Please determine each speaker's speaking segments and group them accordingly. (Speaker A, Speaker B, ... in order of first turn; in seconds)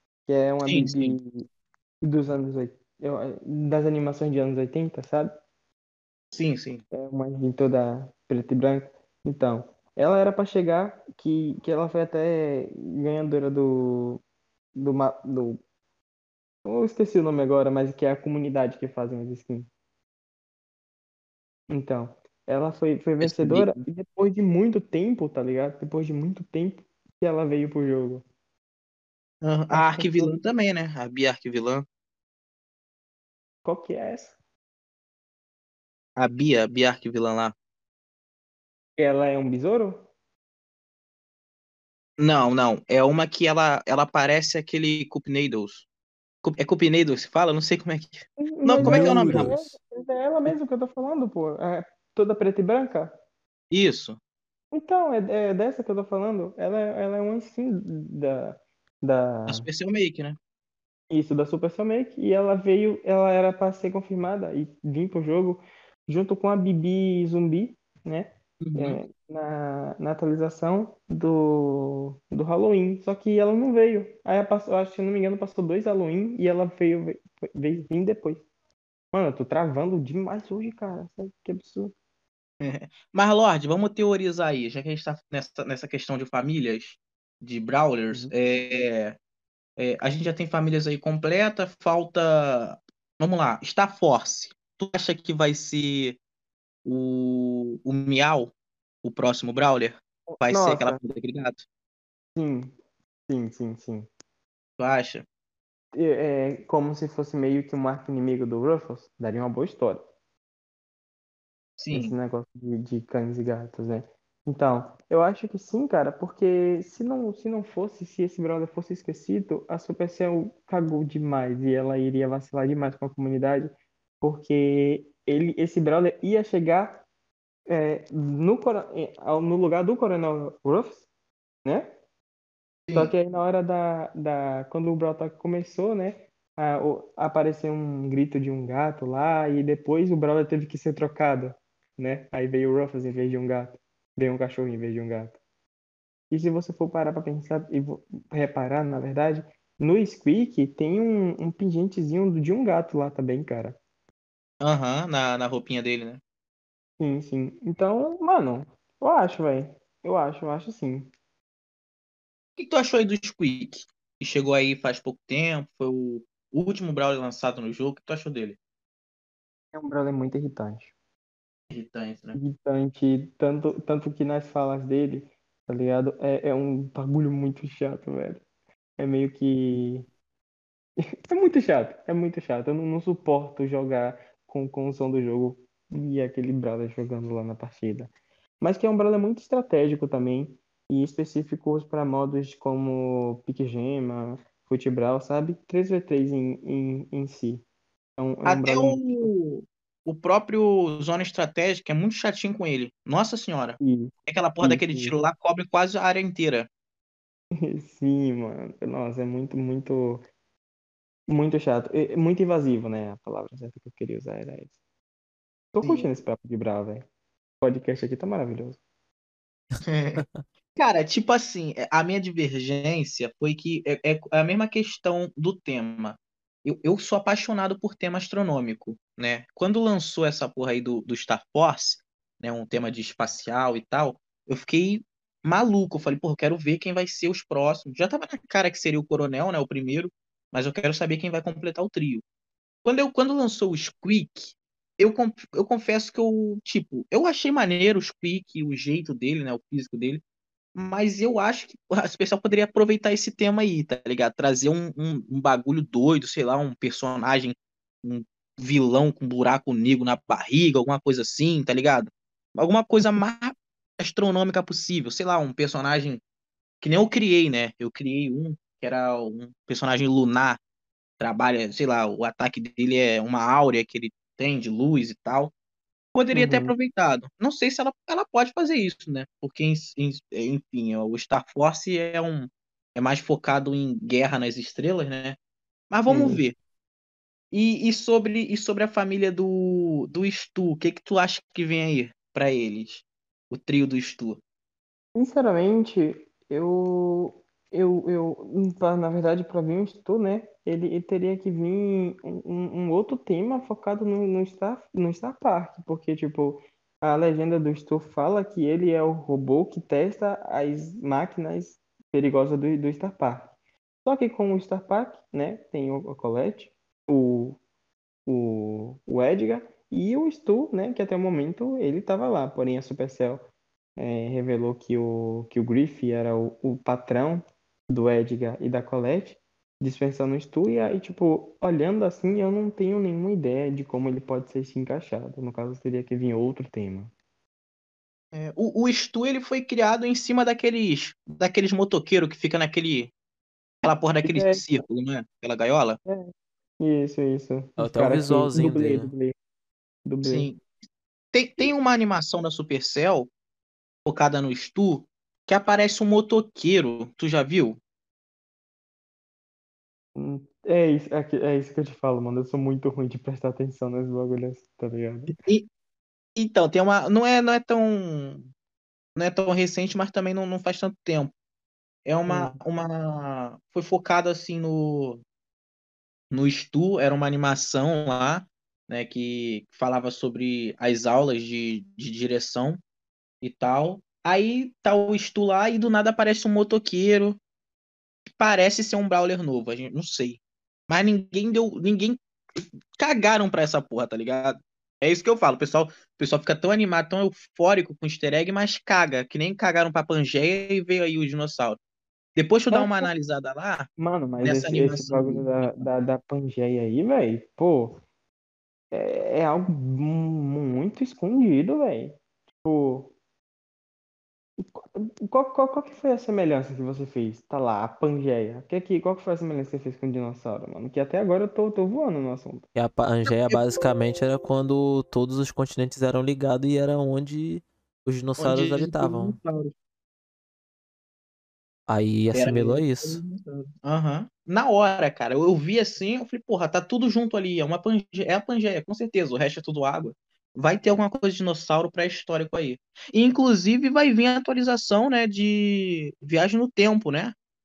Speaker A: 0.3-1.5, 2.0-5.3, 6.9-14.2, 14.8-15.6, 16.6-19.7, 21.7-28.2, 29.7-30.4, 33.6-34.4, 39.0-40.1, 48.4-53.1, 54.7-59.6, 61.1-78.5, 79.1-81.9, 100.3-101.0, 102.4-102.8, 103.3-104.1, 105.9-110.0, 111.9-127.0, 127.7-131.1, 131.7-131.9, 132.9-145.4, 146.3-153.8, 157.0-161.1, 169.7-170.9, 172.3-178.4, 179.0-180.1, 181.3-197.6, 198.2-199.3, 203.8-205.2, 207.5-210.2, 211.3-214.7, 215.7-217.1, 217.6-218.8, 276.3-276.7, 286.1-286.4, 295.1-313.5, 314.1-317.6, 318.3-337.1, 344.2-344.6, 346.1-349.4, 350.1-350.5, 360.1-365.3, 372.3-372.6, 402.7-403.1, 404.0-408.0, 408.9-413.1, 414.6-422.7
Speaker B: 0.7-1.2, 6.3-6.8, 23.2-23.7, 29.4-31.9, 36.2-37.5, 42.2-45.9, 46.4-49.5, 53.7-54.2, 59.5-60.4, 68.6-69.0, 82.6-89.2, 89.8-96.2, 96.8-101.7, 104.8-105.2, 111.8-112.1, 154.6-156.2, 162.6-168.6, 171.7-172.4, 198.5-206.7, 215.8-216.1, 219.8-242.2, 242.8-250.2, 250.8-266.2, 266.8-270.6, 271.2-275.5, 276.1-285.4, 285.9-286.6, 287.5-294.4, 338.3-343.1, 343.8-346.0, 350.2-350.6, 351.3-353.3, 354.1-357.8, 365.4-365.7, 366.4-368.5, 369.2-371.3, 372.1-375.2, 376.3-382.8, 383.4-387.4, 388.4-401.8, 402.4-403.9, 404.4-405.7, 423.3-423.6, 428.4-429.7, 432.3-447.3
Speaker C: 48.8-49.7, 347.8-349.1, 422.8-429.4, 431.9-433.2